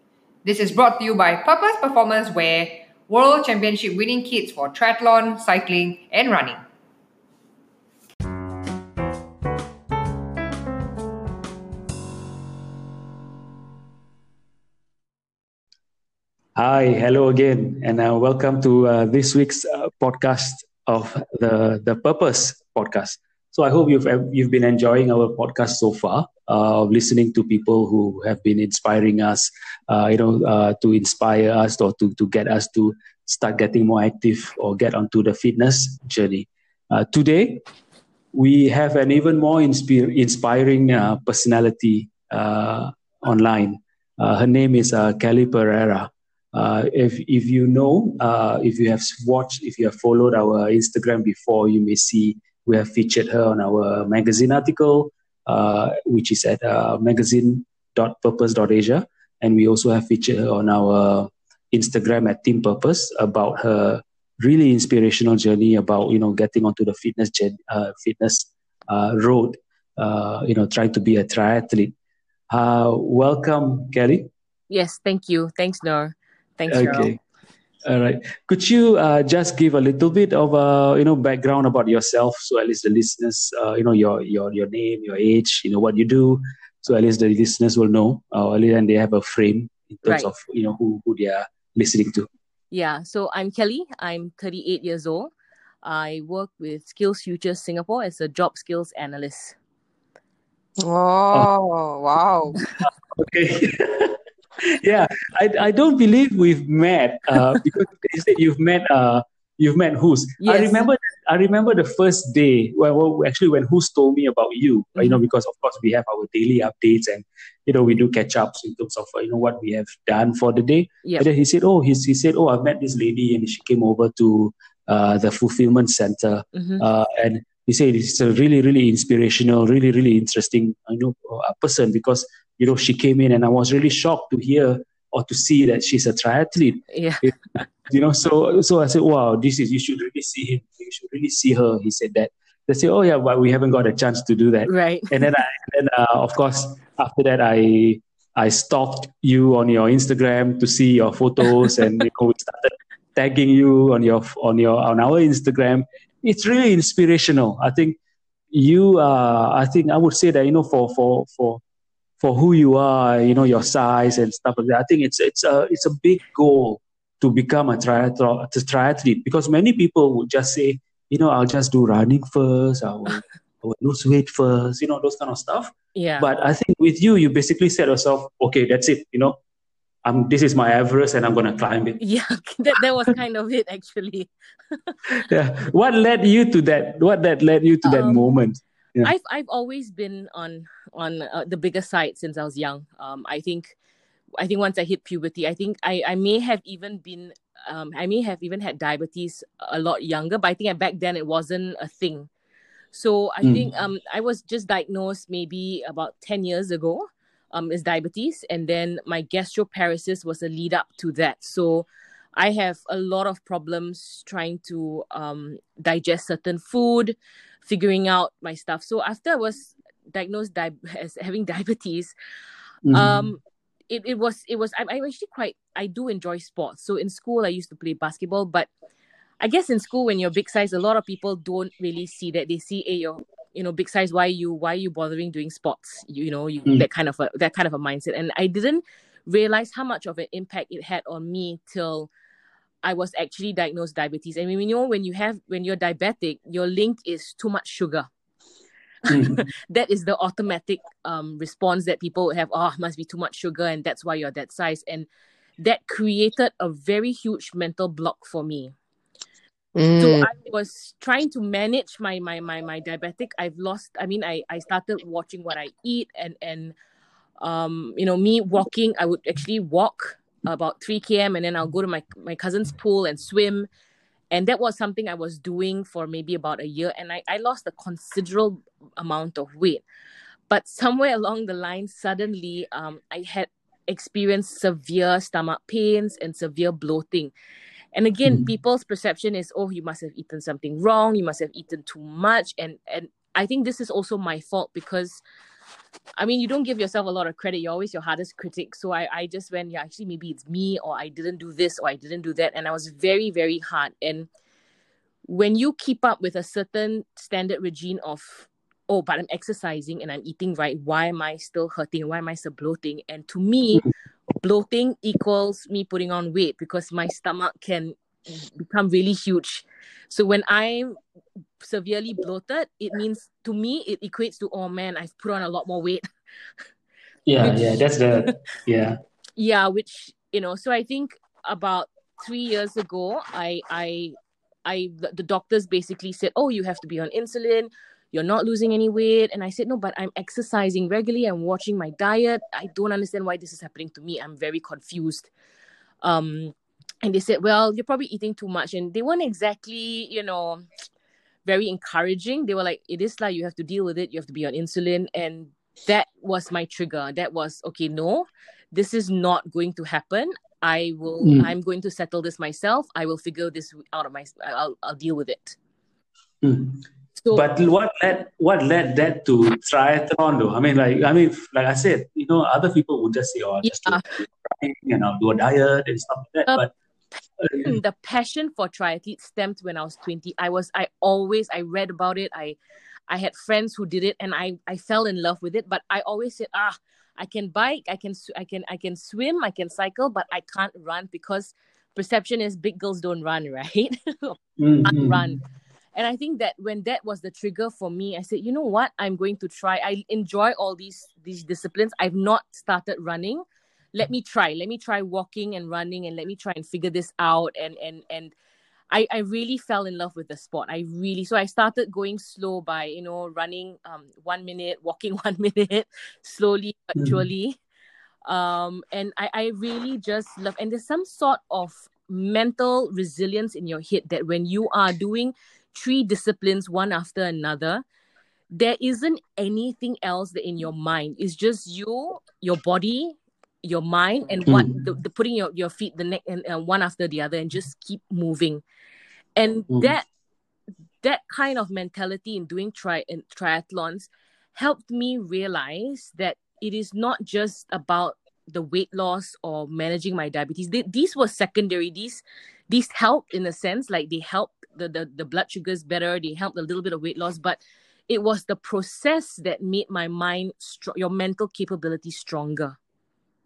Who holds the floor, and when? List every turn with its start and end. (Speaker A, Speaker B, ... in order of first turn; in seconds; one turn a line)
Speaker A: 0.4-6.6
Speaker B: 16.6-37.6
Speaker B: 38.3-71.9
Speaker B: 72.5-74.3
Speaker C: 74.7-77.2
Speaker B: 76.7-77.2
Speaker B: 77.8-92.3
Speaker C: 90.0-90.3
Speaker C: 92.7-95.3
Speaker C: 95.8-99.5
Speaker A: 100.8-102.6
Speaker B: 102.8-158.0
Speaker C: 110.4-110.8
Speaker C: 126.5-126.8
Speaker C: 136.9-137.3
Speaker C: 144.7-145.2
Speaker B: 158.5-161.6
Speaker B: 162.2-179.4
Speaker C: 175.9-176.3
Speaker B: 180.0-182.0
Speaker C: 182.0-185.0
Speaker B: 185.1-189.1
Speaker C: 187.8-188.2
Speaker C: 189.0-193.7
Speaker C: 194.4-202.3
Speaker C: 202.9-222.1
Speaker B: 203.4-203.7
Speaker B: 222.8-223.3
Speaker C: 222.9-228.7
Speaker C: 229.4-242.1
Speaker C: 242.8-248.1
Speaker B: 249.1-249.4
Speaker C: 249.1-255.1
Speaker C: 255.6-258.7
Speaker A: 259.7-260.3
Speaker C: 260.0-266.7
Speaker C: 267.4-273.7
Speaker C: 274.3-279.8
Speaker C: 280.5-287.3
Speaker C: 287.9-295.2
Speaker C: 296.2-304.3
Speaker C: 305.3-313.9
Speaker C: 314.4-321.0
Speaker C: 321.6-326.0
Speaker B: 327.3-329.0
Speaker C: 329.4-345.3
Speaker C: 346.0-350.7
Speaker C: 351.4-365.6
Speaker B: 361.2-361.5
Speaker B: 366.4-376.7
Speaker C: 367.2-367.5
Speaker C: 373.6-374.1
Speaker B: 377.4-377.8
Speaker C: 377.6-382.6
Speaker C: 383.1-395.4
Speaker B: 394.6-395.4
Speaker C: 395.9-403.4
Speaker C: 403.9-408.3
Speaker C: 408.9-417.6
Speaker C: 418.2-427.8
Speaker C: 428.5-438.6
Speaker B: 434.5-434.7
Speaker C: 439.4-440.1
Speaker C: 441.0-462.8